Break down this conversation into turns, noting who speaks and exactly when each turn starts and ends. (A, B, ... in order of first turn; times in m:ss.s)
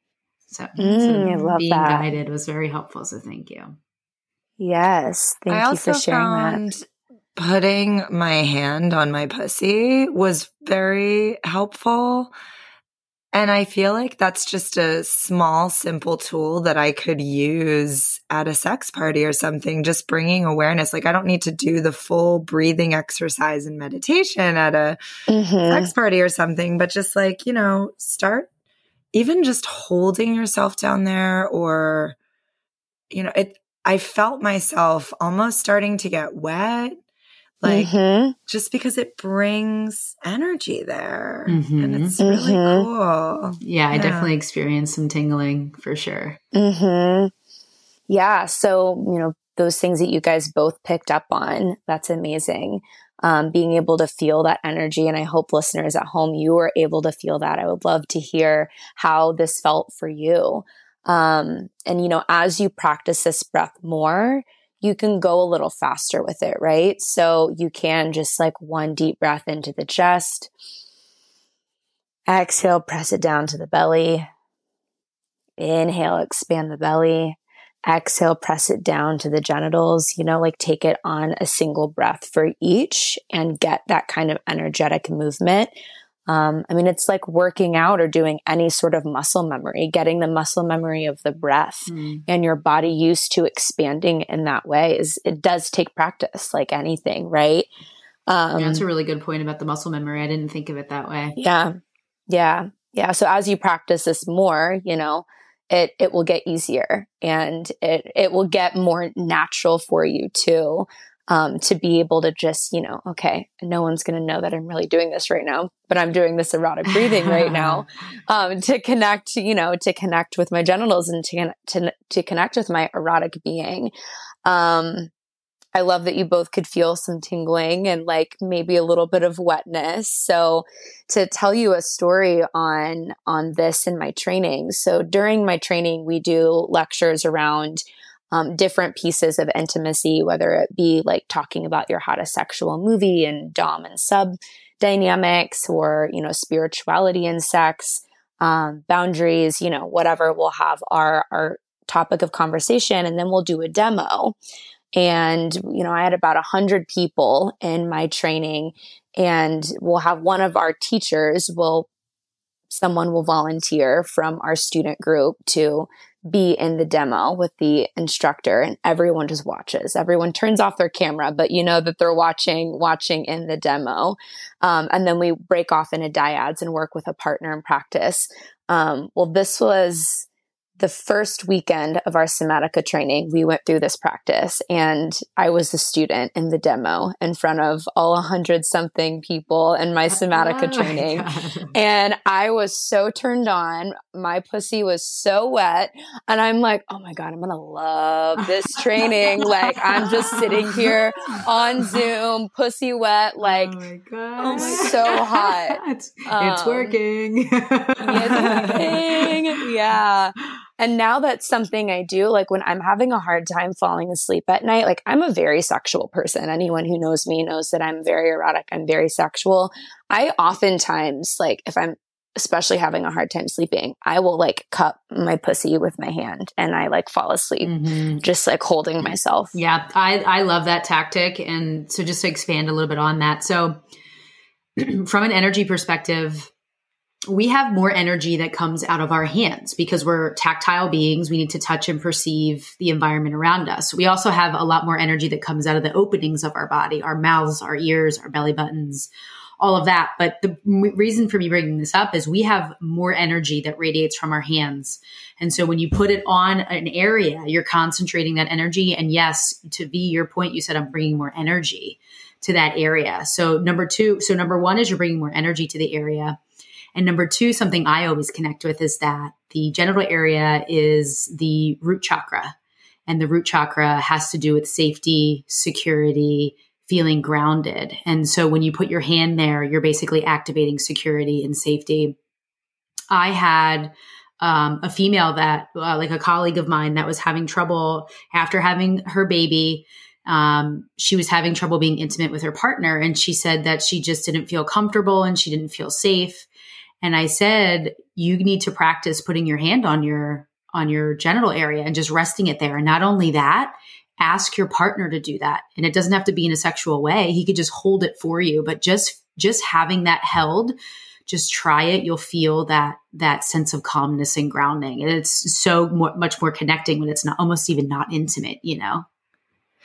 0:00.5-0:03.8 A
0:00.8-0:02.0 B
0:04.6-0:06.6 B
0:05.5-0:06.8 C
0:07.4-0:12.3 C
0:13.3-0:25.0 C
0:25.3-0:25.9 B
0:25.7-0:28.5 C
0:29.1-0:32.2 C
0:33.1-0:37.0 C
0:37.6-0:37.9 C
0:37.6-0:38.4 B
0:38.5-0:44.3 C
0:41.5-0:42.2 A
0:42.2-0:42.9 B
0:43.6-0:46.4 A
0:46.5-0:47.3 B
0:48.1-1:10.5 B
1:12.3-1:14.3 B
1:15.6-1:25.7 B
1:26.3-1:37.7 B
1:31.9-1:32.2 A
1:38.3-1:38.8 B
1:38.6-1:41.4 A
1:41.4-1:41.8 B
1:42.3-2:03.9 B
1:57.0-1:57.8 A
2:04.4-2:05.1 B
2:05.8-2:34.4 B
2:35.0-2:41.9 B
2:42.7-3:00.3 B
3:00.8-3:23.8 B
3:10.3-3:11.7 A
3:19.0-3:22.0 A
3:23.4-3:29.7 A
3:24.4-3:27.0 B
3:28.0-3:49.6 B
3:47.6-3:48.2 A
3:49.6-3:53.8 A
3:54.8-3:56.5 A
3:57.3-4:26.4 A
4:27.0-4:32.6 A
4:33.1-4:42.2 A
4:43.1-4:56.5 A
4:57.0-5:10.8 A
5:11.3-5:19.1 A